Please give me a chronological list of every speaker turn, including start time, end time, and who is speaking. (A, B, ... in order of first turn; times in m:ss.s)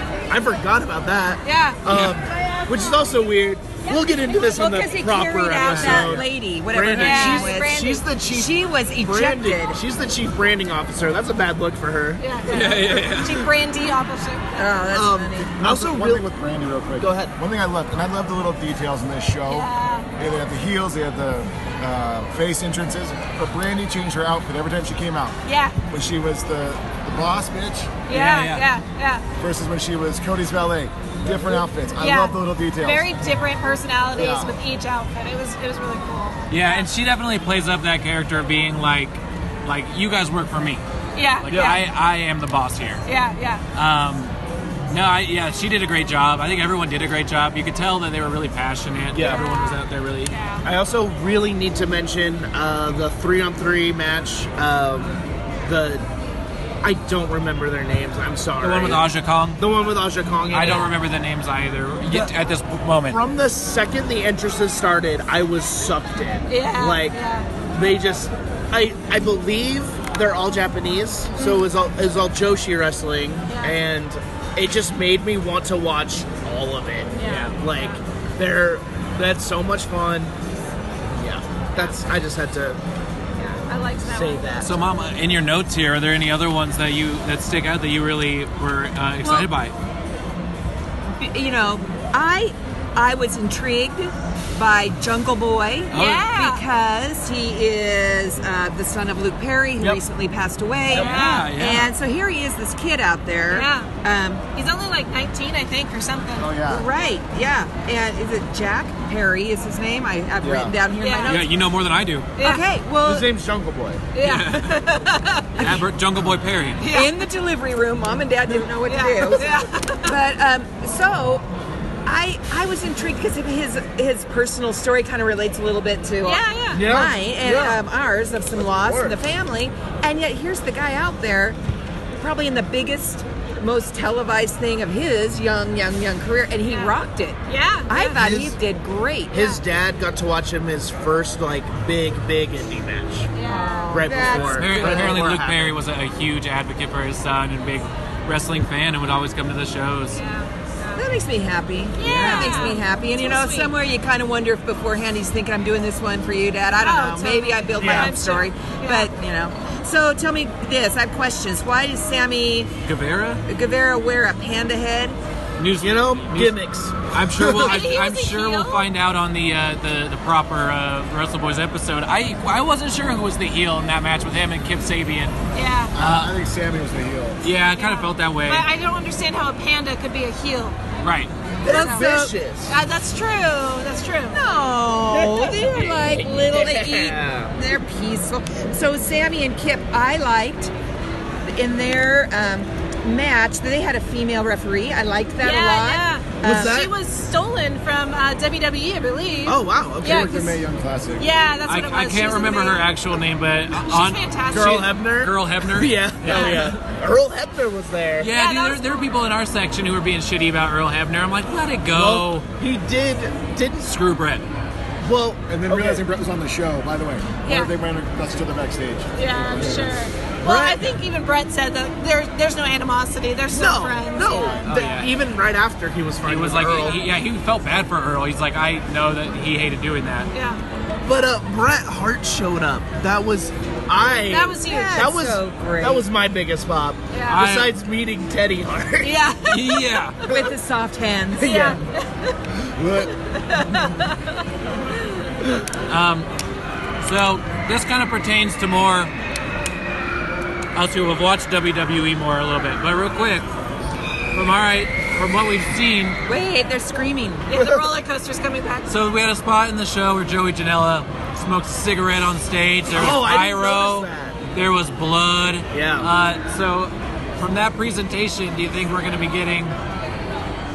0:00.3-0:12.2 A
0:01.4-0:01.8 B
0:01.9-0:02.2 C
0:04.3-0:09.8 D
0:05.6-0:06.1 C
0:07.0-0:07.7 B
0:12.2-0:14.8 B
0:12.5-0:13.5 C
0:14.6-0:15.6 D
0:14.9-0:16.2 A
0:15.6-0:25.4 E
0:17.0-0:17.3 A
0:19.5-0:20.1 B
0:25.4-0:25.8 B
0:25.9-0:27.9 E
0:28.1-0:29.2 B
0:28.1-0:28.6 C
0:29.4-0:33.2 E
0:32.0-0:36.9 B
0:34.1-0:34.6 E
0:36.5-0:40.8 C
0:41.2-0:41.8 B
0:41.4-0:43.0 C
0:41.5-0:41.8 A
0:43.0-0:43.6 B
0:43.7-0:44.3 C
0:44.9-0:50.3 C
0:49.1-0:49.5 A
0:49.2-0:50.6 B
0:50.6-0:56.0 A
0:56.8-1:00.9 A
0:58.6-0:59.6 C
1:00.5-1:03.2 C
1:02.1-1:02.3 A
1:03.0-1:07.2 A
1:06.5-1:07.5 B
1:07.7-1:20.3 A
1:11.4-1:11.6 B
1:13.5-1:13.8 B
1:17.2-1:18.0 B
1:21.1-1:22.8 A
1:23.4-1:24.7 B
1:24.0-1:24.7 A
1:24.6-1:29.7 C
1:31.2-1:44.4 D
1:35.9-1:36.3 C
1:35.9-1:36.6 B
1:40.9-1:41.5 B
1:40.9-1:41.9 C
1:43.5-1:43.9 B
1:44.5-1:46.6 B
1:46.4-1:46.8 E
1:46.6-1:51.5 D
1:50.4-1:50.7 E
1:51.0-1:51.4 B
1:51.2-1:52.3 C
1:52.4-1:52.6 B
1:52.4-1:53.3 D
1:53.0-1:54.0 A
1:54.1-1:55.6 B
1:54.2-1:54.8 C
1:55.6-1:56.8 C
1:56.8-1:57.2 B
1:56.9-2:01.4 D
1:58.8-2:00.1 B
2:02.0-2:11.6 D
2:06.2-2:06.9 B
2:06.7-2:07.8 A
2:08.6-2:09.2 A
2:12.2-2:19.3 D
2:16.7-2:16.9 B
2:17.5-2:18.2 B
2:18.1-2:18.6 A
2:19.3-2:23.3 A
2:23.3-2:24.5 B
2:23.4-2:25.2 D
2:23.9-2:25.8 A
2:24.3-2:30.2 C
2:30.1-2:31.0 B
2:31.0-2:42.7 D
2:32.0-2:33.7 B
2:32.0-2:32.8 C
2:36.8-2:39.1 B
2:37.8-2:38.2 A
2:42.8-2:43.4 C
2:43.5-2:45.2 D
2:45.6-2:55.4 C
2:45.8-2:47.7 A
2:47.5-2:48.9 B
2:55.5-2:55.9 B
2:55.9-2:57.4 E
2:56.0-2:56.3 C
2:57.4-2:58.7 C
2:57.7-3:00.8 B
3:01.0-3:01.3 C
3:01.6-3:02.8 A
3:01.7-3:02.3 D
3:01.7-3:02.2 B
3:02.7-3:04.4 B
3:04.3-3:10.7 D
3:05.1-3:07.6 A
3:11.4-3:16.8 D
3:15.4-3:20.5 B
3:16.4-3:16.9 A
3:19.4-3:20.4 A
3:20.0-3:21.3 E
3:21.2-3:22.9 B
3:21.6-3:26.7 C
3:23.8-3:24.9 B
3:24.5-3:28.3 A
3:26.2-3:26.7 B
3:28.2-3:32.4 C
3:28.3-3:29.1 B
3:31.9-3:34.0 A
3:33.8-3:34.4 C
3:35.0-3:36.0 A
3:35.5-3:40.0 E
3:37.4-3:37.7 B
3:39.2-3:44.7 B
3:40.4-3:40.9 A
3:43.5-3:47.0 A
3:44.6-3:45.1 C
3:46.2-3:50.3 C
3:50.3-3:50.6 B
3:51.0-3:59.2 A
3:54.3-3:55.1 B
3:54.6-3:56.0 D
3:57.1-3:57.4 B
3:57.3-3:57.8 C
3:59.0-4:00.4 B
3:59.4-4:00.2 C
4:00.2-4:01.8 D
4:01.4-4:02.4 B
4:02.6-4:03.1 E
4:03.0-4:04.4 B
4:05.9-4:06.3 C
4:07.0-4:09.1 C
4:10.7-4:13.4 C
4:14.3-4:16.2 C
4:16.2-4:17.5 D
4:17.5-4:18.9 B
4:18.9-4:29.8 C
4:22.9-4:24.4 A
4:25.7-4:26.1 A